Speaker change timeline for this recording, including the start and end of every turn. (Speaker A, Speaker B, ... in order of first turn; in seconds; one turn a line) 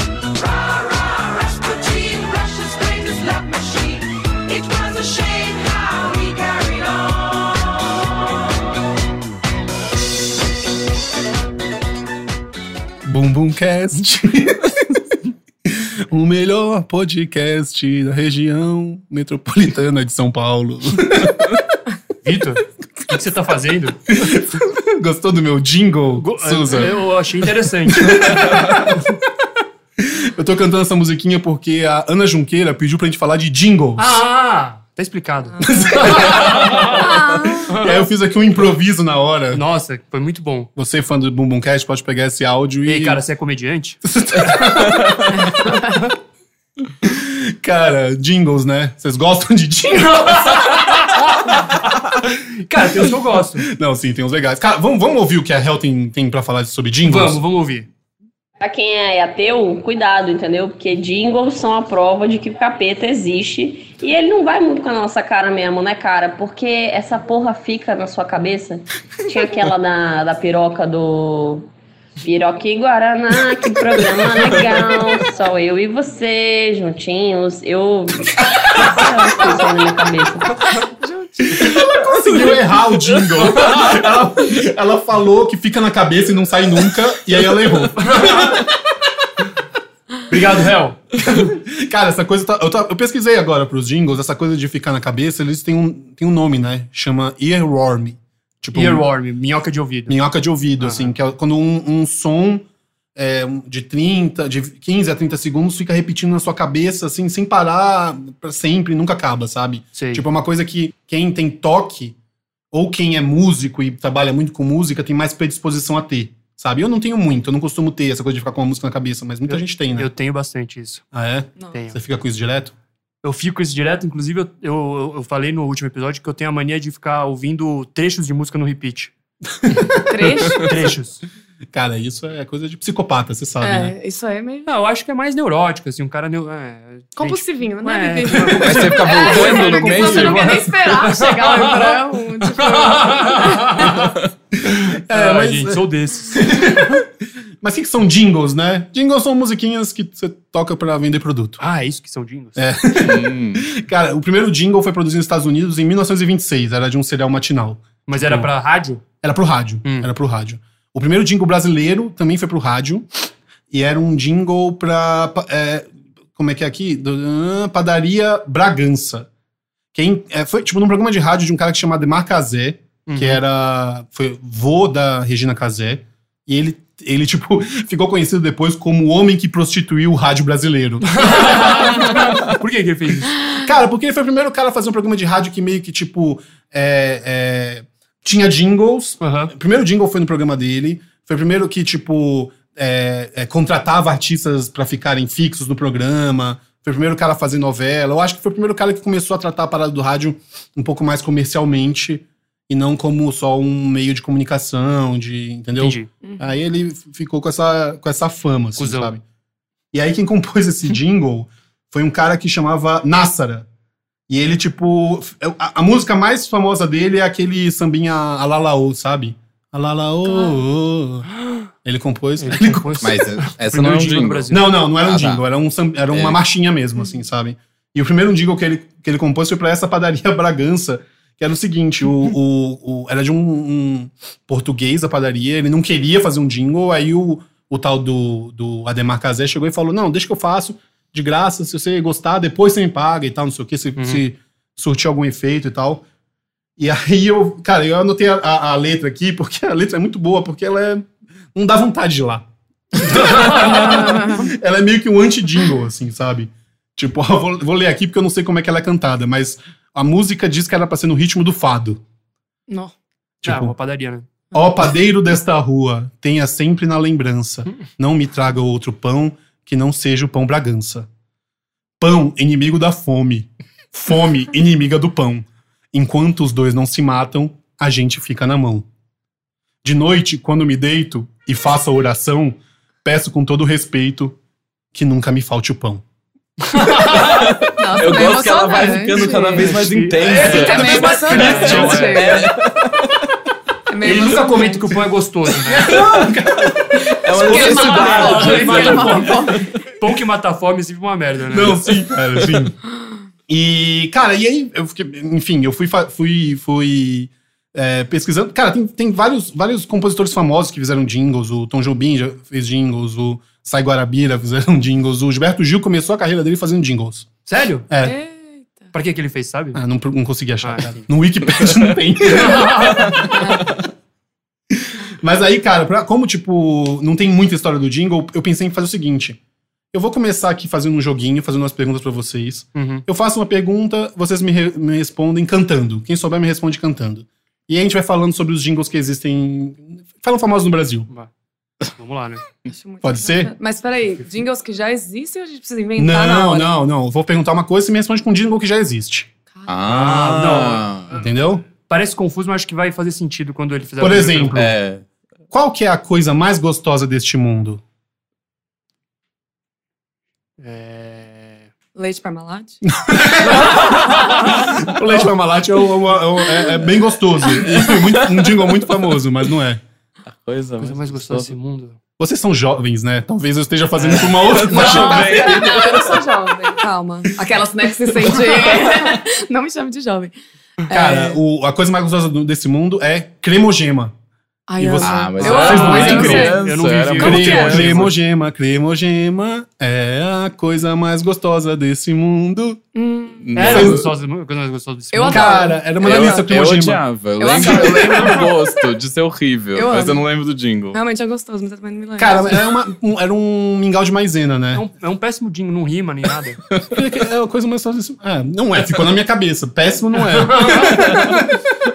Speaker A: 0.4-7.4
Speaker B: 13.0-15.0
Speaker B: 15.6-21.6
Speaker C: 22.2-24.0
Speaker B: 24.1-27.0
Speaker C: 26.2-29.0
Speaker B: 27.9-29.1
Speaker B: 30.0-34.2
Speaker C: 34.0-37.1
Speaker D: 35.6-37.7
Speaker B: 35.6-39.6
Speaker C: 37.7-38.0
Speaker C: 39.5-40.7
Speaker B: 40.8-43.2
Speaker C: 42.9-45.0
Speaker B: 44.0-45.4
Speaker D: 45.3-46.0
Speaker B: 47.0-51.0
Speaker C: 49.9-53.7
Speaker B: 52.9-57.4
Speaker C: 57.0-57.9
Speaker E: 58.6-71.7
Speaker E: 72.2-80.6
Speaker D: 81.0-81.5
Speaker B: 81.5-88.7
Speaker C: 83.6-83.9
Speaker C: 88.0-88.6
Speaker C: 90.3-91.0
Speaker B: 91.1-99.0
Speaker C: 98.7-100.2
Speaker B: 100.1-112.2
Speaker C: 100.8-101.1
Speaker C: 109.9-110.2
Speaker B: 112.7-120.1
Speaker C: 119.5-121.0
Speaker B: 121.1-122.7
Speaker C: 121.7-122.0
Speaker C: 123.2-129.1
Speaker B: 129.6-130.5
Speaker D: 130.1-130.8
Speaker C: 130.6-131.2
Speaker B: 131.7-133.9
Speaker D: 133.6-134.7
Speaker C: 134.7-144.2
Speaker D: 137.2-143.6
Speaker F: 138.6-140.6
Speaker C: 144.7-147.0
Speaker B: 144.7-147.1
Speaker B: 147.6-151.6
Speaker C: 151.6-152.7
Speaker B: 152.6-158.5
Speaker F: 153.0-153.6
Speaker C: 158.1-159.0
Speaker B: 159.2-163.1
Speaker C: 159.8-160.1
Speaker B: 163.7-169.3
Speaker B: 169.9-182.4
Speaker C: 173.1-173.4
Speaker C: 181.1-183.4
Speaker B: 183.6-209.2
Speaker C: 189.2-189.5
Speaker C: 205.8-206.1
Speaker D: 206.2-206.5
Speaker C: 208.8-209.2
Speaker B: 209.9-213.7
Speaker B: 214.3-221.3
Speaker D: 220.3-220.6
Speaker B: 221.8-223.0
Speaker C: 222.4-224.7
Speaker F: 223.0-225.4
Speaker B: 224.5-246.0
Speaker F: 226.1-226.4
Speaker C: 244.0-244.2
Speaker B: 246.8-262.0
Speaker C: 253.1-253.9
Speaker D: 253.6-254.5
Speaker D: 262.7-262.9
Speaker B: 263.4-263.7
Speaker C: 263.4-264.3
Speaker B: 264.5-271.1
Speaker B: 272.0-278.9
Speaker B: 279.8-284.4
Speaker B: 284.9-286.0
Speaker C: 286.7-287.5
Speaker F: 287.1-293.2
Speaker D: 287.8-289.7
Speaker C: 289.2-292.3
Speaker B: 290.2-292.0
Speaker D: 290.3-292.5
Speaker D: 293.9-294.8
Speaker C: 294.0-295.9
Speaker B: 294.1-294.6
Speaker B: 295.6-298.1
Speaker F: 295.9-296.3
Speaker D: 297.1-299.6
Speaker F: 297.2-299.6
Speaker C: 297.6-301.8
Speaker B: 301.5-302.8
Speaker B: 303.5-317.3
Speaker C: 317.4-317.9
Speaker B: 317.9-318.1
Speaker D: 318.0-318.9
Speaker C: 318.9-319.8
Speaker B: 319.7-323.3
Speaker C: 320.6-321.1
Speaker C: 322.3-323.2
Speaker D: 323.3-323.7
Speaker B: 324.7-329.4
Speaker B: 329.9-341.1
Speaker C: 332.7-333.0
Speaker C: 342.0-342.4
Speaker D: 342.7-346.7
Speaker B: 343.0-343.5
Speaker B: 345.9-349.3
Speaker F: 349.7-351.1
Speaker C: 349.9-351.2
Speaker B: 351.1-351.6
Speaker C: 351.8-354.7
Speaker B: 354.0-354.7
Speaker F: 354.5-355.0
Speaker B: 355.5-357.8
Speaker C: 360.6-361.7
Speaker D: 361.9-362.8
Speaker B: 362.9-369.8
Speaker C: 363.5-364.4
Speaker F: 367.8-368.7
Speaker F: 370.3-371.5
Speaker C: 370.8-372.0
Speaker B: 372.2-375.6
Speaker C: 374.0-374.3
Speaker F: 374.1-376.3
Speaker D: 374.7-381.4
Speaker F: 378.8-379.1
Speaker B: 380.9-384.1
Speaker D: 384.7-386.6
Speaker B: 384.8-392.8
Speaker F: 385.0-388.1
Speaker C: 385.4-388.1
Speaker D: 387.3-387.7
Speaker D: 392.9-393.8
Speaker F: 393.4-394.0
Speaker C: 393.5-395.6
Speaker B: 393.6-394.1
Speaker D: 395.1-396.5
Speaker B: 395.2-398.1
Speaker F: 396.0-401.0
Speaker D: 397.4-398.8
Speaker D: 399.7-400.2
Speaker D: 400.9-402.6
Speaker B: 402.2-404.8
Speaker C: 404.7-406.6
Speaker B: 406.9-411.6
Speaker C: 410.2-411.0
Speaker F: 410.9-411.4